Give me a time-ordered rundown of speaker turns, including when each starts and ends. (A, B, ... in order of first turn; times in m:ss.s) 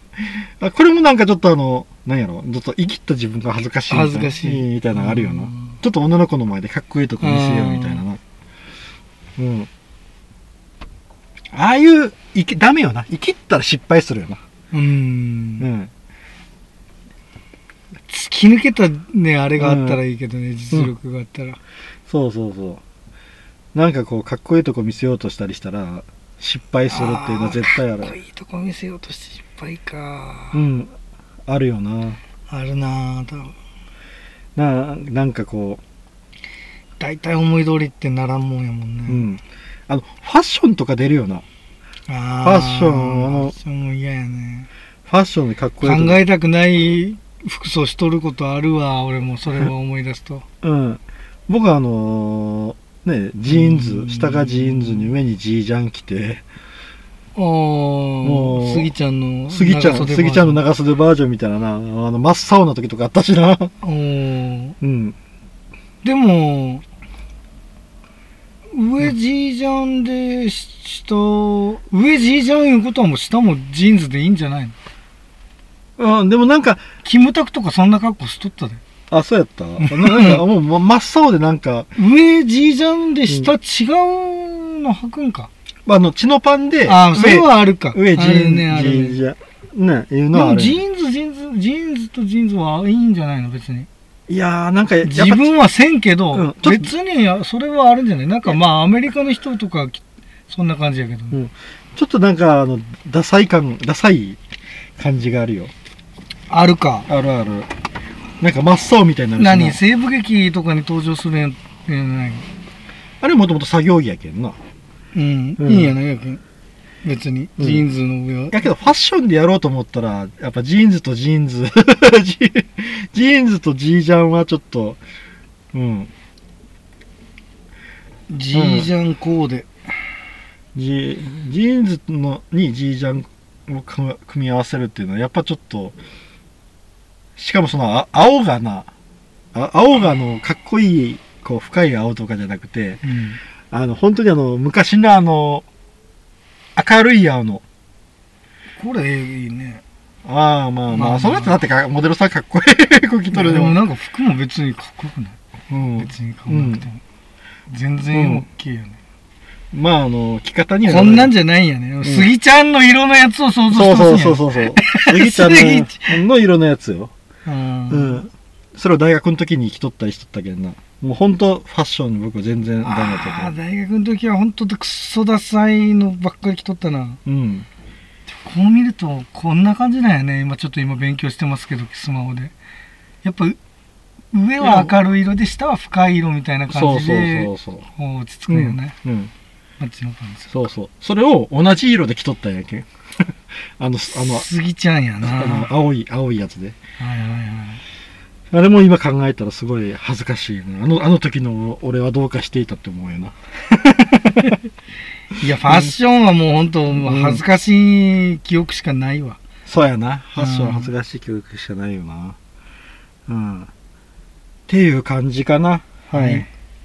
0:00.6-0:08.2 A
0:03.9-0:05.8 B
0:07.2-0:08.0 B
0:09.4-0:09.7 A
0:11.5-0:14.4 A
0:14.7-0:15.7 B
0:15.6-0:15.9 A
0:18.1-0:21.6 B
0:19.6-0:20.0 A
0:22.1-0:22.8 A
0:23.8-0:28.2 A
0:26.9-0:30.6 B
0:30.5-0:30.9 A
0:31.5-0:32.2 A
0:32.5-0:33.6 B
0:34.6-0:35.8 A
0:37.0-0:39.2 B
0:39.1-0:41.4 A
0:42.1-0:44.7 B
0:42.4-0:43.5 A
0:45.1-0:46.2 A
0:45.8-0:50.4 B
0:50.6-0:56.4 A
0:53.5-0:55.1 B
0:57.4-1:00.6 B
0:58.2-0:58.9 A
0:59.5-1:03.7 A
1:03.8-1:04.8 B
1:04.8-1:05.2 A
1:06.0-1:06.8 B
1:08.7-1:14.8 B
1:16.0-1:16.8 A
1:17.0-1:18.8 B
1:19.1-1:21.9 A
1:19.8-1:20.4 B
1:22.0-1:25.5 B
1:23.3-1:23.5 A
1:25.9-1:30.8 A
1:26.9-1:29.2 B
1:30.3-1:33.9 B
1:34.3-1:35.5 A
1:35.0-1:41.4 B
1:36.3-1:36.9 A
1:41.3-1:44.4 A
1:45.0-1:45.7 A
1:46.5-1:47.1 B
1:47.1-1:47.7 A
1:48.4-1:49.8 A
1:49.4-1:52.5 B
1:53.2-1:54.6 A
1:55.1-1:56.4 B
1:55.6-1:56.0 A
1:57.0-1:58.7 B
1:57.6-1:57.8 A
1:58.5-2:05.0 A
2:05.7-2:06.1 A
2:08.3-2:09.7 B
2:08.5-2:08.9 A
2:10.8-2:16.0 A
2:17.4-2:18.9 A
2:19.5-2:23.0 A
2:23.0-2:23.4 B
2:23.7-2:25.6 A
2:26.8-2:27.6 A
2:28.8-2:29.8 B
2:30.2-2:33.8 A
2:30.9-2:31.6 B
2:33.3-2:35.4 B
2:35.7-2:36.9 A
2:36.0-2:37.0 B
2:37.7-2:39.0 B
2:38.1-2:38.5 A
2:39.7-2:41.4 A
2:40.8-2:46.2 B
2:42.0-2:42.3 A
2:43.7-2:47.1 A
2:47.5-2:48.2 B
2:47.9-2:53.6 A
2:52.8-2:57.2 B
2:57.3-2:57.7 A
2:58.3-3:02.5 B
3:03.2-3:03.6 B
3:04.3-3:09.0 B
3:04.6-3:05.0 A
3:06.7-3:07.8 A
3:08.5-3:09.3 A
3:09.8-3:10.7 B
3:10.5-3:12.9 A
3:13.8-3:14.5 A
3:14.1-3:15.7 B
3:15.2-3:16.8 A
3:17.0-3:17.8 B
3:18.5-3:24.6 A
3:25.4-3:29.4 B
3:25.6-3:25.9 A
3:26.9-3:27.5 A
3:29.7-3:32.4 A
3:30.4-3:30.9 B
3:33.3-3:33.7 A
3:34.7-3:36.5 A
3:36.1-3:36.5 B